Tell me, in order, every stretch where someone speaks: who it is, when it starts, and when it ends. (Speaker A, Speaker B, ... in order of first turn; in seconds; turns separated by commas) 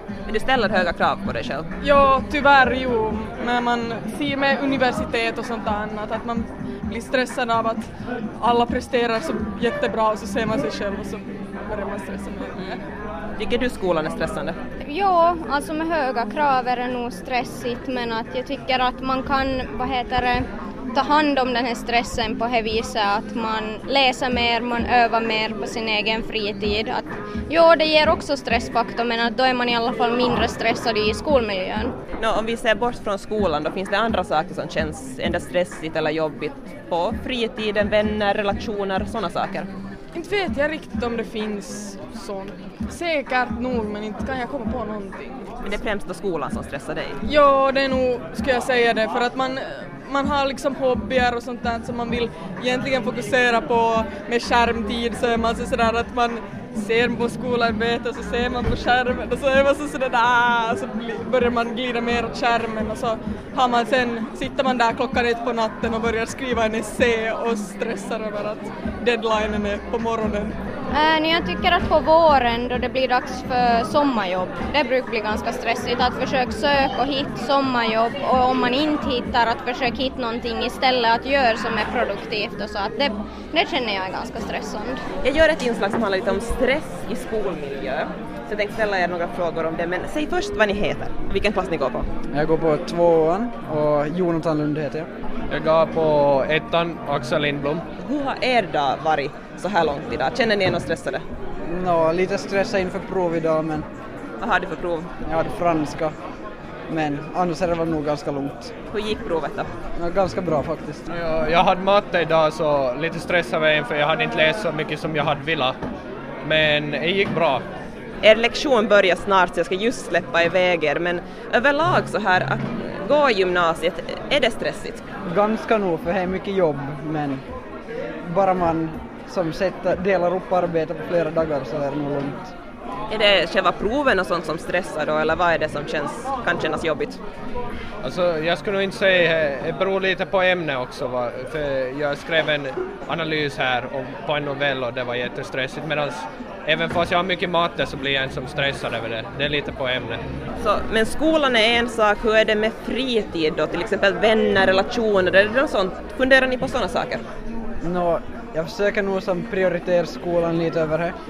Speaker A: 0.3-1.7, Speaker B: 1.8-12.8, Speaker A: 13.4-14.6, Speaker C: 14.8-31.9, Speaker A: 32.2-39.7, Speaker B: 40.1-45.6, Speaker A: 45.6-47.2, Speaker B: 47.2-70.6, Speaker C: 70.9-85.0, Speaker A: 85.2-92.1, Speaker D: 92.3-95.1, Speaker E: 95.5-97.9, Speaker A: 98.0-101.2, Speaker D: 101.7-103.9, Speaker A: 104.4-105.1, Speaker D: 105.2-106.2, Speaker D: 106.9-108.7, Speaker A: 108.9-109.7, Speaker D: 110.0-111.0, Speaker E: 111.1-115.8, Speaker E: 116.4-117.7, Speaker A: 118.2-125.0, Speaker D: 125.2-127.4, Speaker D: 128.2-132.5, Speaker A: 133.1-137.2, Speaker E: 138.0-150.2, Speaker A: 150.6-157.2, Speaker D: 157.8-161.2